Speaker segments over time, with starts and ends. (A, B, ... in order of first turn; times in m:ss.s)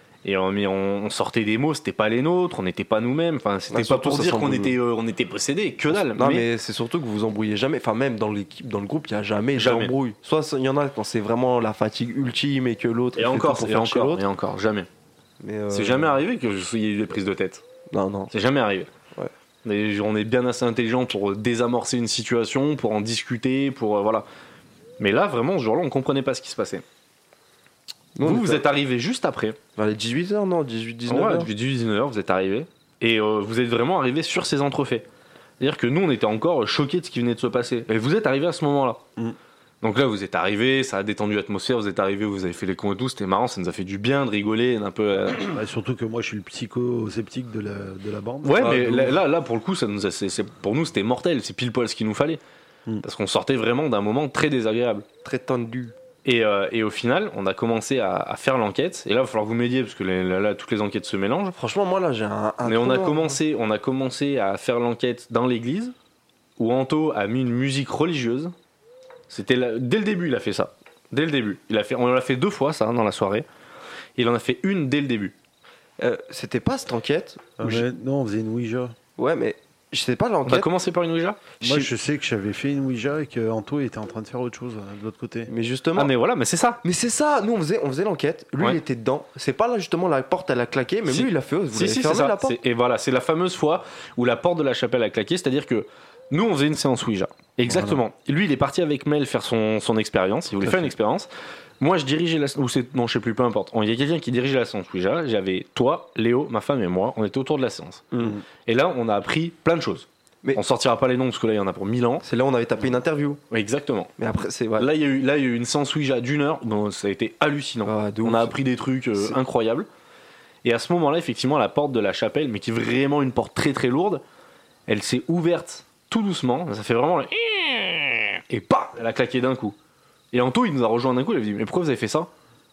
0:00.2-0:06.5 A
0:03.7-0:04.8 B
0:06.0-0:14.2 B
0:09.6-0:09.9 A
0:13.2-0:14.9 A
0:15.4-0:16.2 B
0:15.7-0:17.6 A
0:17.9-0:18.3 B
0:18.3-0:18.9 A
0:19.6-0:24.3 A
0:25.0-0:26.8 A
0:28.2-0:28.6 B
0:28.2-0:29.6 A
0:29.8-0:31.5 B
0:31.1-0:35.1 A
0:35.6-0:39.0 A
0:39.8-0:45.5 A
0:45.4-0:49.1 C
0:48.4-0:52.4 A
0:48.6-0:49.2 B
0:53.0-0:55.1 A
0:55.2-0:55.9 B
0:56.2-1:01.6 A
1:01.6-1:03.4 B
1:02.6-1:06.0 A
1:06.6-1:08.5 A
1:09.3-1:13.5 A
1:14.2-1:15.4 A
1:16.0-1:17.8 B
1:17.6-1:19.0 C
1:19.2-1:20.7 B
1:20.5-1:21.6 A
1:21.6-1:21.9 B
1:21.6-1:25.5 C
1:25.5-1:26.1 B
1:26.0-1:26.8 A
1:26.8-1:32.6 B
1:31.1-1:41.3 A
1:37.7-1:38.0 C
1:41.8-1:48.1 A
1:48.1-1:48.4 B
1:48.6-1:52.2 A
1:52.2-1:53.4 B
1:53.5-1:54.1 A
1:54.2-1:54.9 B
1:54.8-1:59.9 A
1:57.8-1:58.6 B
2:00.6-2:04.2 A
2:04.9-2:09.8 A
2:10.3-2:12.3 A